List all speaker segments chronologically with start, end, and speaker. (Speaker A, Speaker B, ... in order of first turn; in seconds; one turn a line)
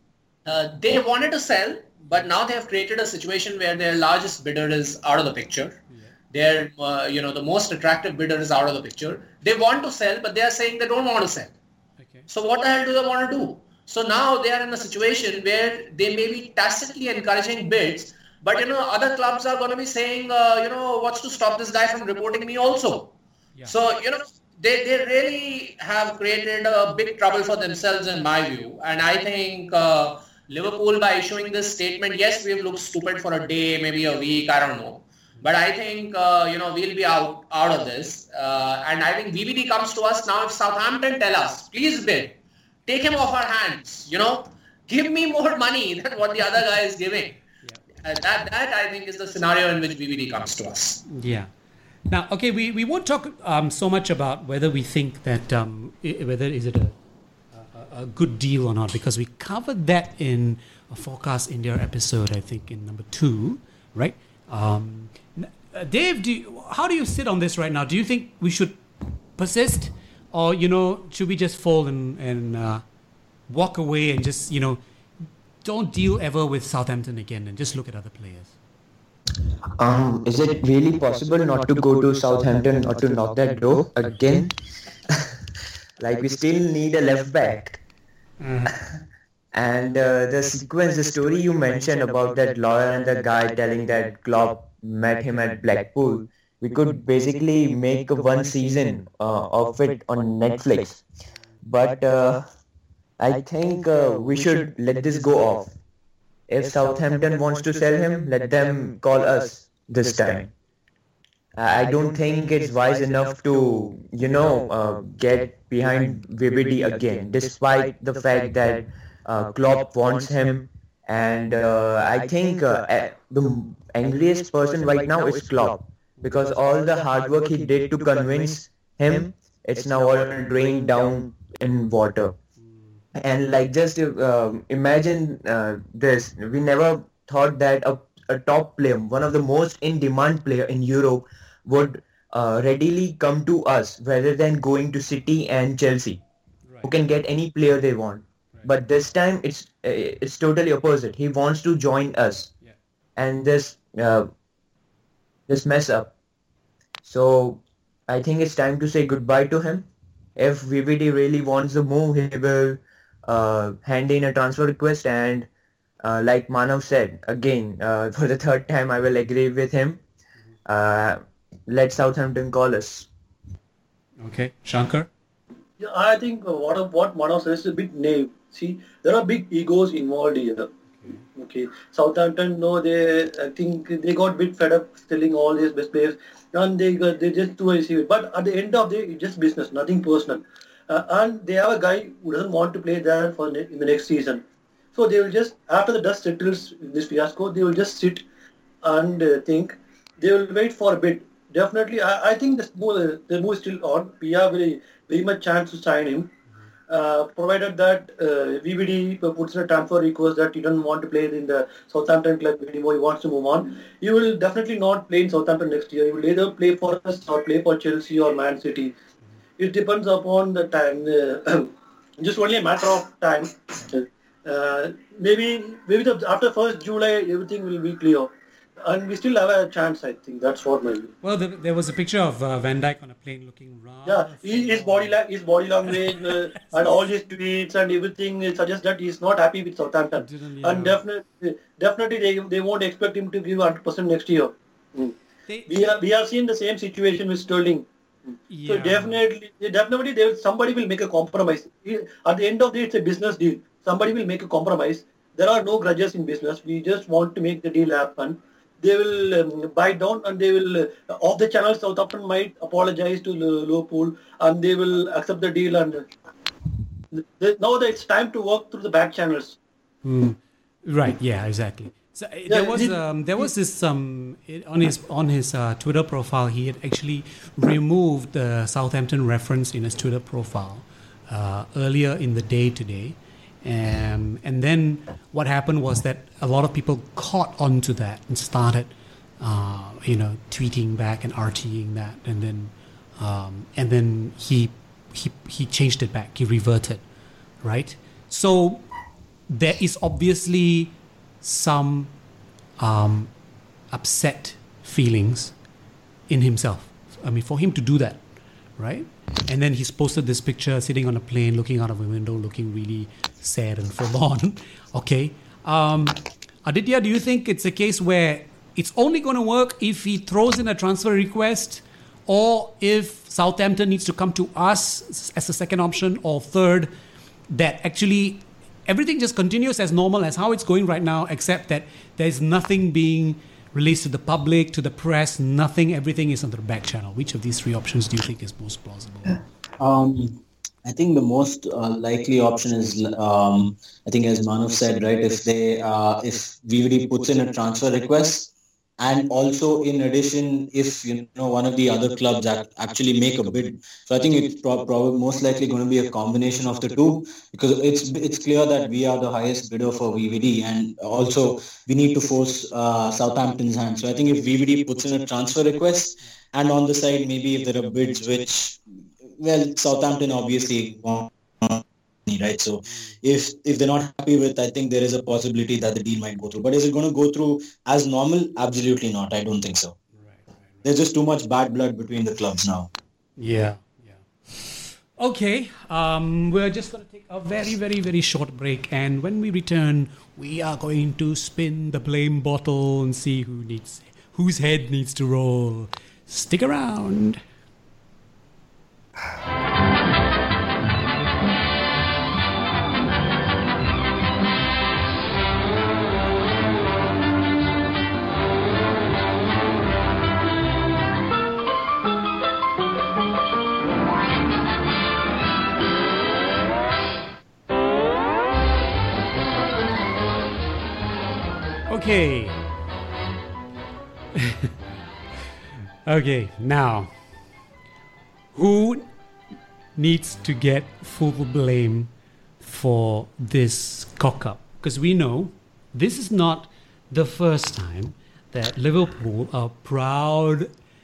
Speaker A: 0.5-5.8
Speaker A: 6.3-11.5
Speaker B: 12.0-12.3
Speaker A: 12.3-23.1
Speaker A: 23.6-47.4
Speaker A: 48.0-51.0
Speaker B: 51.1-51.5
Speaker B: 52.1-57.0
Speaker B: 57.5-68.8
Speaker B: 69.3-72.8
Speaker B: 73.5-74.8
Speaker B: 75.6-78.5
Speaker C: 79.8-84.5
Speaker C: 85.1-85.3
Speaker C: 86.0-87.8
Speaker B: 88.4-88.8
Speaker C: 89.5-101.0
Speaker C: 101.6-102.4
Speaker C: 103.2-105.7
Speaker C: 106.5-110.5
Speaker C: 111.5-132.3
Speaker B: 132.7-132.9
Speaker C: 133.1-146.2
Speaker C: 146.8-152.5
Speaker C: 153.2-154.3
Speaker C: 155.5-156.1
Speaker C: 157.0-165.5
Speaker C: 166.0-170.0
Speaker C: 170.7-173.1
Speaker B: 174.2-175.1
Speaker D: 175.8-180.7
Speaker B: 181.0-181.2
Speaker D: 181.3-194.4
Speaker D: 194.9-198.2
Speaker D: 198.8-206.3
Speaker D: 206.9-218.9
Speaker D: 219.6-228.3
Speaker D: 228.8-231.1
Speaker B: 231.2-235.2
Speaker D: 234.1-245.1
Speaker B: 235.9-237.0
Speaker B: 240.2-241.0
Speaker B: 245.4-245.9
Speaker D: 245.7-247.9
Speaker B: 248.5-249.2
Speaker D: 248.7-266.1
Speaker D: 267.1-269.6
Speaker B: 270.0-297.0
Speaker D: 272.5-273.5
Speaker B: 297.6-298.9
Speaker B: 299.5-302.1
Speaker B: 302.8-303.3
Speaker B: 303.9-305.5
Speaker B: 306.3-308.2
Speaker B: 308.8-326.9
Speaker B: 327.5-339.4
Speaker E: 339.8-368.8
Speaker E: 369.4-380.0
Speaker B: 372.9-373.1
Speaker B: 380.1-380.4
Speaker E: 380.8-382.9
Speaker B: 383.4-397.4
Speaker B: 421.9-422.6
Speaker B: 424.4-424.7
Speaker B: 426.1-427.1
Speaker B: 428.5-429.1
Speaker B: 430.0-432.1
Speaker B: 432.6-440.7